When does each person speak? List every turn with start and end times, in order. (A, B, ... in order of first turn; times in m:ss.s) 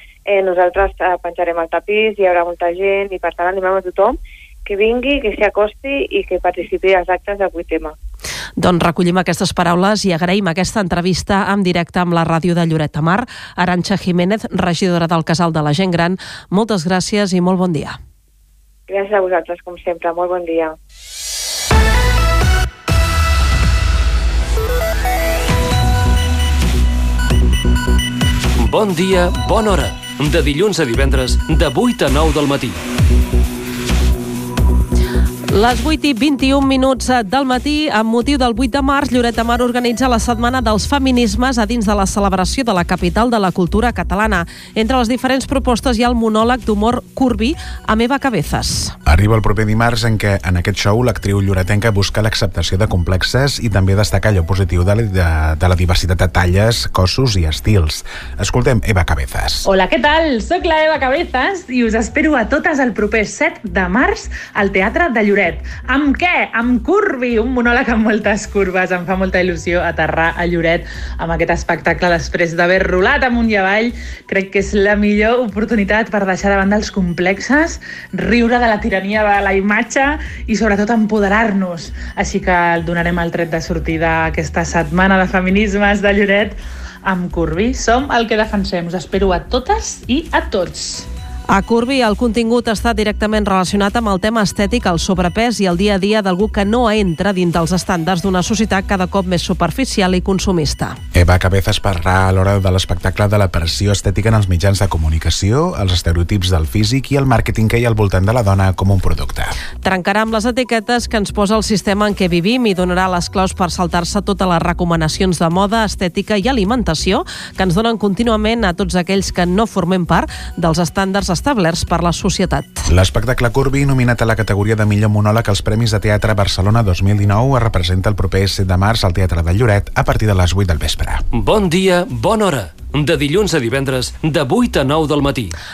0:00.3-0:07.9 A
0:08.6-0:18.0 B
0:18.9-0:20.7 A
0:28.6-0:32.8 C
0:35.5-0:48.9 B
0:49.0-0:59.7 D
0:59.6-1:31.0 E
1:31.5-1:41.0 B
1:41.1-1:49.5 D
1:49.8-2:02.9 B
2:02.9-2:11.2 D
2:11.3-2:15.5 C